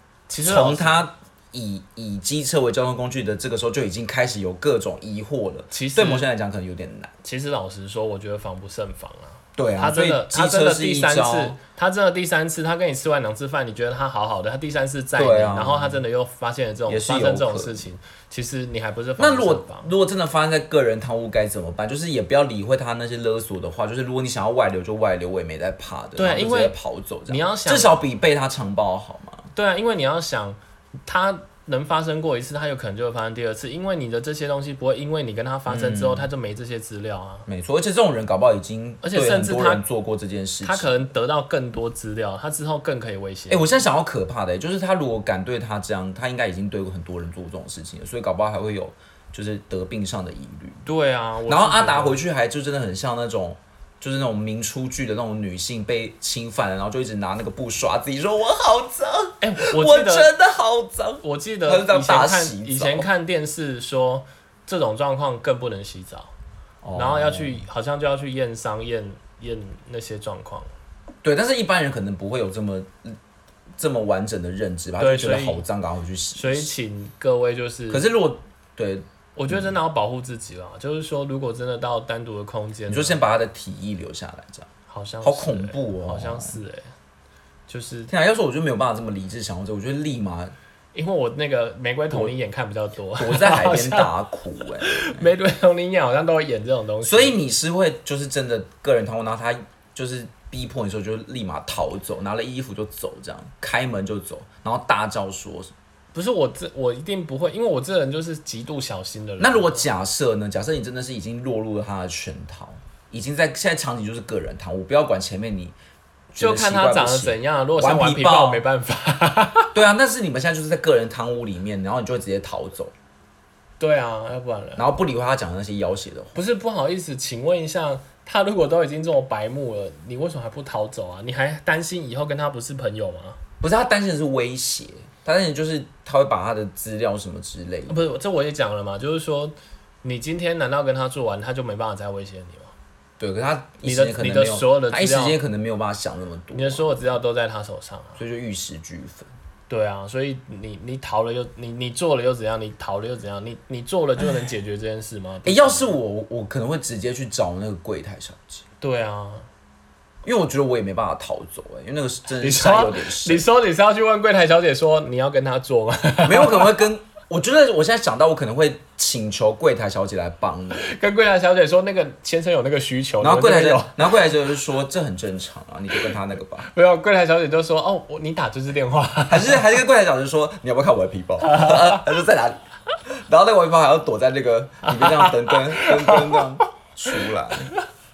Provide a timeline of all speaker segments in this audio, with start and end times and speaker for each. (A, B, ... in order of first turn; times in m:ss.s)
0:00.3-0:01.0 A
0:00.4-0:07.1 B
0:05.7-0:06.3 A
0:07.2-0:19.9 A
0:09.6-0:11.6 B
0:15.2-0:16.0 B
0:16.9-0:17.8 B
0:19.2-0:29.5 B
0:26.2-0:28.0 A
0:29.5-0:37.5 A
0:35.7-0:36.3 B
0:37.5-0:41.0 B
0:39.0-0:39.8 A
0:40.6-0:43.8 A
0:43.5-0:50.8 B
0:50.8-0:52.2 A
0:51.5-1:03.1 B
0:59.4-1:00.3 A
1:01.2-1:06.3 A
1:06.8-1:07.6 B
1:06.9-1:10.7 A
1:11.2-1:13.2 B
1:13.8-1:16.7 B
1:15.0-1:15.6 A
1:16.3-1:18.0 A
1:17.9-1:19.7 B
1:19.4-1:23.2 A
1:22.9-1:24.7 B
1:24.9-1:26.9 A
1:25.2-1:26.6 B
1:27.7-1:28.1 A
1:28.1-1:30.5 B
1:30.9-1:34.1 A
1:33.2-1:35.3 B
1:34.8-1:37.4 A
1:37.0-1:45.7 B
1:46.1-1:49.8 A
1:49.4-1:55.8 B
1:56.3-1:58.6 B
1:56.4-1:59.7 A
1:59.7-2:02.9 B
2:03.8-2:04.8 A
2:04.8-2:06.4 B
2:06.3-2:13.4 A
2:13.6-2:18.0 B
2:17.9-2:22.7 A
2:23.2-2:27.0 B
2:23.8-2:25.4 A
2:26.5-2:28.2 A
2:28.2-2:29.3 B
2:29.7-2:36.0 A
2:35.4-2:38.6 B
2:38.8-2:39.5 A
2:40.2-2:43.4 B
2:42.4-2:46.8 A
2:46.2-2:50.8 B
2:50.8-2:54.1 A
2:53.2-2:56.7 B
2:56.6-2:59.6 A
2:59.3-3:07.7 B
3:01.4-3:02.0 A
3:04.8-3:06.4 A
3:07.1-3:07.8 A